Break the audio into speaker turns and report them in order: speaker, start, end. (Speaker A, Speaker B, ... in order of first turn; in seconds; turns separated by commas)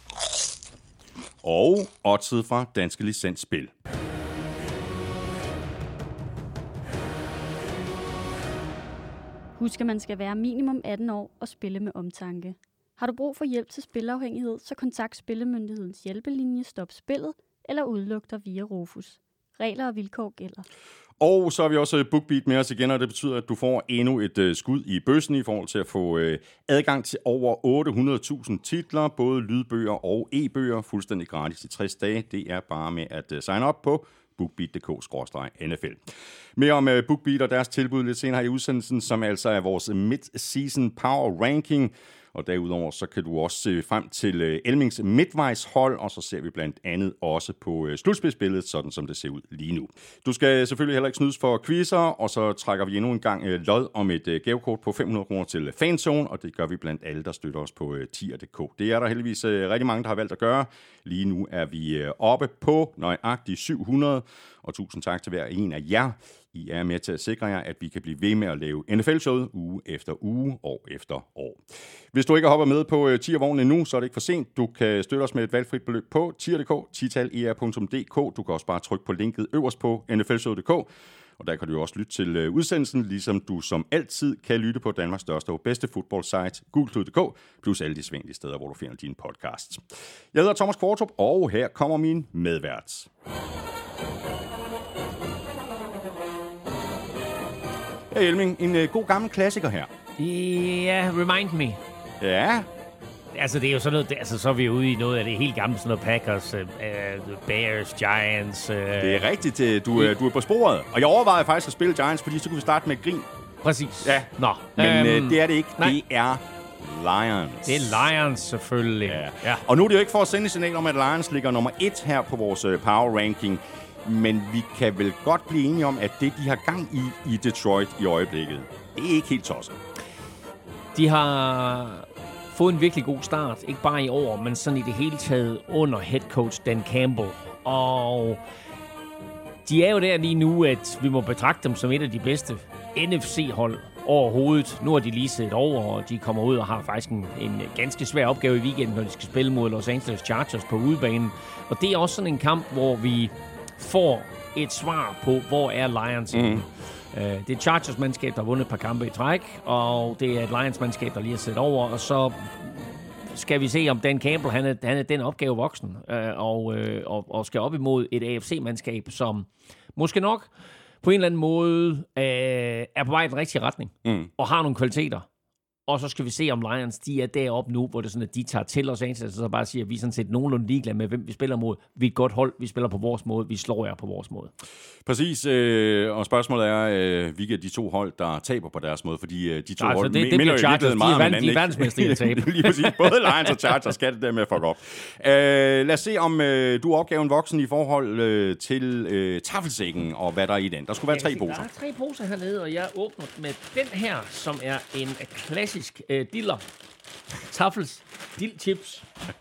Speaker A: 1.4-3.7, Speaker B: 9.6-20.6, Speaker A: 21.2-36.0, Speaker A: 36.6-93.1, Speaker A: 98.1-99.9, Speaker C: 100.2-101.8, Speaker A: 102.2-102.7, Speaker C: 103.3-109.3, Speaker A: 109.0-113.3, Speaker C: 113.6-116.0, Speaker A: 114.0-118.0, Speaker C: 117.7-119.6, Speaker A: 119.0-129.8, Speaker C: 130.9-138.4, Speaker C: 139.7-170.5, Speaker A: 156.3-156.7, Speaker C: 171.0-175.3, Speaker C: 175.9-184.5, Speaker A: 185.0-201.7, Speaker C: 189.8-193.3, Speaker C: 201.1-206.6, Speaker C: 207.3-209.1